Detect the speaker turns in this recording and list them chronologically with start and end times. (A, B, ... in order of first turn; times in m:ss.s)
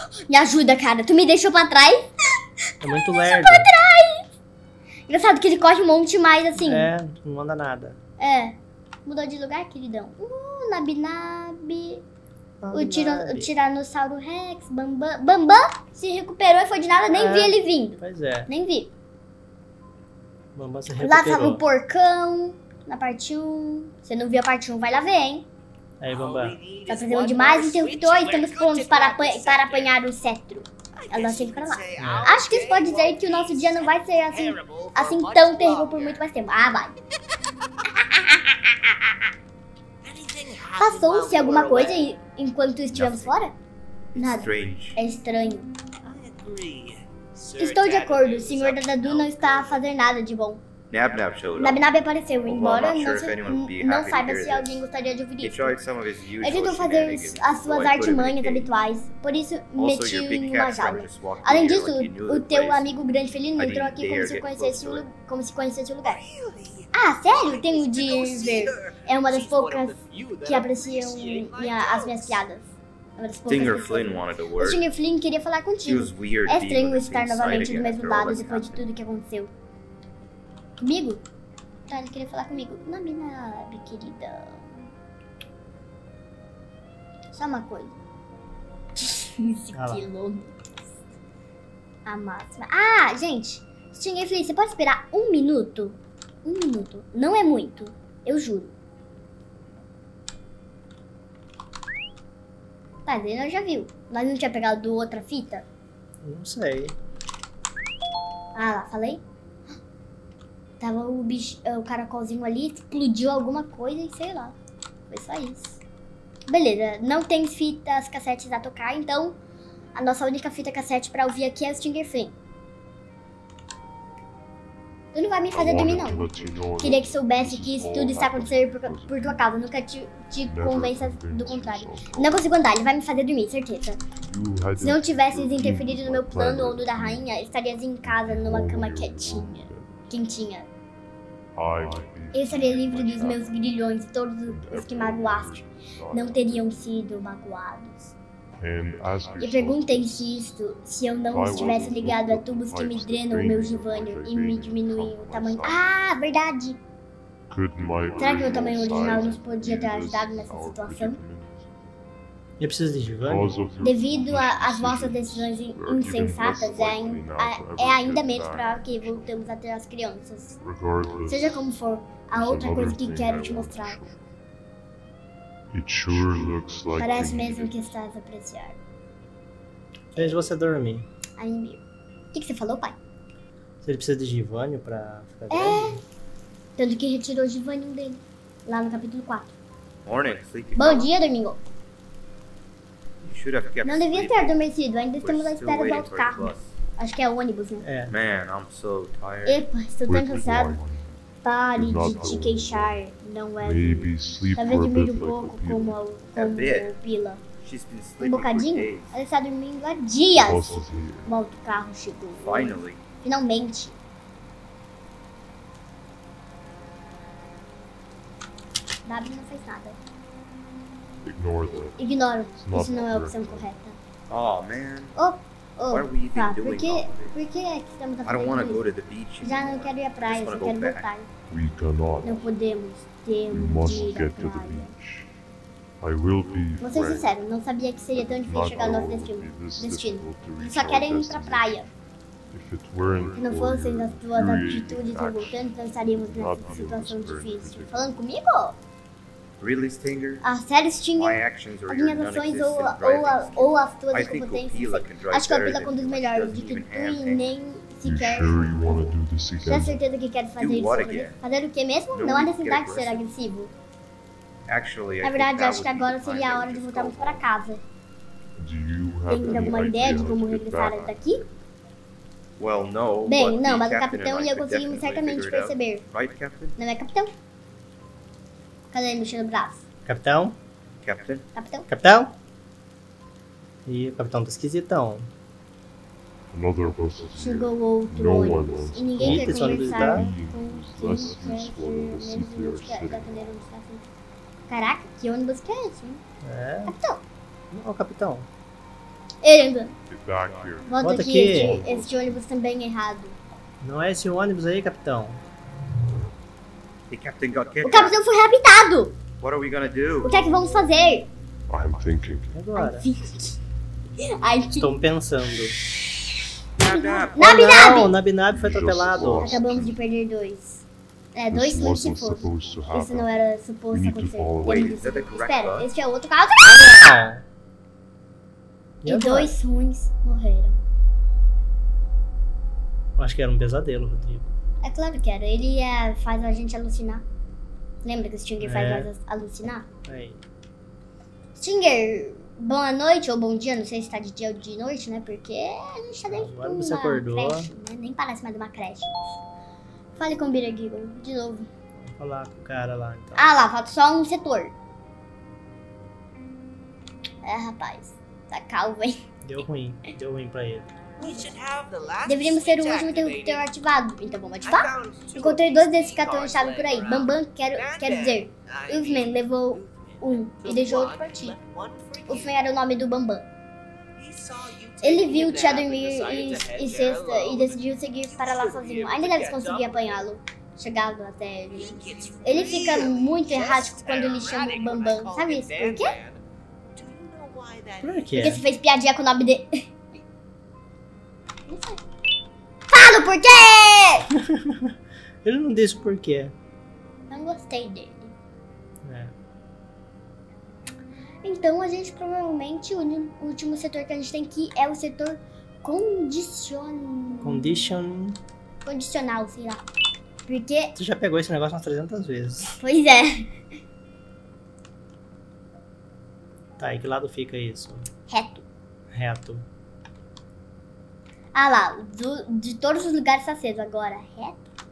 0:00.3-0:02.1 A
0:02.8-0:03.7 B
0:02.9-0:04.3 A
0:05.1-0:06.9 A
0:06.6-0:08.0 B
0:08.2-0:12.0 A
0:12.6-0:13.5 B
0:12.7-0:18.9 A
0:17.1-0:18.5 B
0:20.6-0:21.6 B
0:21.0-0:25.5 A
0:26.0-0:26.6 B
0:26.1-0:29.9 C
0:26.9-0:37.0 A
0:31.0-0:36.2 C
0:32.0-0:32.3 B
0:38.0-0:39.3 A
0:40.0-0:42.1 C
0:40.8-0:43.6 A
0:43.0-0:43.3 D
0:44.2-0:45.0 D
0:44.2-0:45.7 A
0:46.0-0:49.8 C
0:47.6-0:50.6 A
0:50.9-0:51.8 D
0:51.6-0:55.8 A
0:52.4-0:54.8 D
0:55.4-0:58.7 D
0:56.4-1:06.2 A
0:59.8-1:03.0 D
1:03.6-1:05.1 D
1:06.0-1:12.4 C
1:06.9-1:19.5 A
1:13.5-1:14.8 D
1:15.8-1:18.8 D
1:20.8-1:21.2 A
1:21.9-1:24.8 A
1:27.3-1:28.0 A
1:29.0-1:30.8 A
1:29.8-1:30.0 B
1:32.1-1:38.7 A
1:43.1-1:45.6 A
1:46.2-1:46.9 B
1:48.6-1:49.2 A
1:50.8-1:54.6 A
1:55.1-1:55.8 A
1:56.5-1:59.4 A
2:00.0-2:02.3 A
2:05.1-2:14.0 A
2:05.5-2:09.6 E
2:10.4-2:12.6 E
2:14.1-2:17.3 E
2:14.8-2:20.7 A
2:18.0-2:20.1 E
2:21.5-2:23.7 E
2:22.3-2:28.1 A
2:24.4-2:27.0 E
2:28.6-2:30.5 E
2:29.4-2:36.8 A
2:31.3-2:35.9 E
2:37.5-2:41.7 E
2:38.1-2:41.2 A
2:42.6-2:43.6 B
2:43.2-2:49.4 E
2:43.8-2:54.0 A
2:50.6-2:51.7 E
2:52.3-2:54.2 E
2:55.7-2:57.9 E
2:57.0-2:58.8 A
3:00.2-3:01.0 B
3:01.4-3:01.8 A
3:02.3-3:03.0 A
3:03.8-3:06.0 B
3:05.5-3:06.0 A
3:06.8-3:09.5 A
3:10.0-3:11.1 D
3:10.8-3:11.6 A
3:13.2-3:14.6 D
3:13.8-3:17.8 A
3:15.2-3:16.8 D
3:17.8-3:18.1 B
3:18.1-3:19.6 D
3:19.5-3:20.8 A
3:20.1-3:21.2 E
3:21.4-3:27.4 A
3:21.7-3:23.0 E
3:23.6-3:26.0 E
3:26.4-3:26.9 D
3:27.6-3:29.2 D
3:28.2-3:34.0 A
3:30.3-3:31.4 E
3:32.4-3:33.0 D
3:39.1-3:40.0 A
3:41.2-3:42.0 E
3:42.0-3:44.0 A
3:42.6-3:43.7 E
3:44.3-3:45.2 D
3:45.2-3:48.8 A
3:45.9-3:47.3 D
3:48.2-3:51.1 D
3:49.4-3:51.3 A
3:51.5-3:52.5 E
3:52.2-3:54.9 A
3:53.5-3:55.3 E
3:56.0-3:57.4 E
3:56.5-3:56.8 D
3:56.8-4:01.9 A
3:58.1-4:02.0 E
4:02.5-4:08.2 E
4:03.0-4:03.4 D
4:03.4-4:08.8 A
4:09.6-4:10.5 D
4:10.4-4:23.7 A
4:11.2-4:17.5 D
4:18.0-4:20.0 E
4:20.6-4:21.4 D
4:22.1-4:23.2 D
4:24.7-4:27.4 D
4:25.2-4:27.8 A
4:28.6-4:31.5 E
4:29.3-4:31.5 A
4:32.6-4:36.8 D
4:33.3-4:36.0 A
4:36.8-4:37.3 A
4:38.9-4:39.8 A
4:40.1-4:40.6 B
4:41.0-4:41.4 D
4:41.6-4:41.9 A
4:41.9-4:42.3 B
4:43.9-4:45.3 B
4:46.5-4:53.5 E
4:47.4-4:54.1 A
4:49.2-4:50.3 B
4:54.7-4:56.2 A
4:56.4-4:57.0 B
4:56.9-4:57.2 A
4:57.7-4:58.5 B
4:59.4-4:59.9 A
5:00.1-5:02.4 E
5:00.5-5:00.9 D
5:00.9-5:03.4 A
5:01.0-5:01.8 B
5:03.8-5:05.4 B
5:07.1-5:08.2 D
5:07.8-5:09.2 A
5:09.4-5:10.4 D
5:10.2-5:11.3 A
5:11.7-5:12.6 E
5:12.5-5:13.1 B
5:12.8-5:13.6 A
5:14.2-5:15.0 A
5:14.8-5:15.8 B
5:16.8-5:17.7 D
5:16.9-5:18.2 A
5:17.4-5:19.6 B
5:18.4-5:20.0 E
5:19.4-5:27.0 A
5:21.5-5:23.4 E
5:23.9-5:25.1 E
5:24.6-5:25.9 D
5:26.9-5:27.4 B
5:29.0-5:29.5 B
5:29.1-5:30.8 A
5:33.2-5:34.5 B
5:34.8-5:37.2 A
5:38.0-5:39.9 A
5:38.6-5:39.1 B
5:40.0-5:40.4 B
5:41.6-5:49.1 A
5:46.3-5:47.7 B
5:50.2-5:51.7 A
5:52.2-5:53.4 B
5:53.4-5:54.7 A
5:57.4-5:59.2 A
5:59.4-6:00.9 B
6:01.2-6:03.7 C
6:01.2-6:01.5 A
6:02.2-6:11.6 A
6:04.6-6:12.6 C
6:12.3-6:13.5 A
6:14.2-6:20.2 C
6:15.0-6:26.2 A
6:21.7-6:26.4 C
6:26.9-6:28.6 C
6:28.0-6:28.6 B
6:28.4-6:30.0 A
6:31.7-6:32.0 A
6:32.9-6:34.3 A
6:34.4-6:34.9 B
6:35.4-6:36.5 B
6:37.3-6:38.3 A
6:39.0-6:39.3 B
6:41.4-6:47.9 A
6:47.4-6:48.4 B
6:48.8-6:49.8 A
6:50.5-6:50.9 A
6:51.0-6:52.8 B
6:52.8-6:53.5 A
6:56.8-6:58.0 B
6:58.3-6:58.6 A
6:59.1-6:59.6 B
7:01.5-7:04.6 A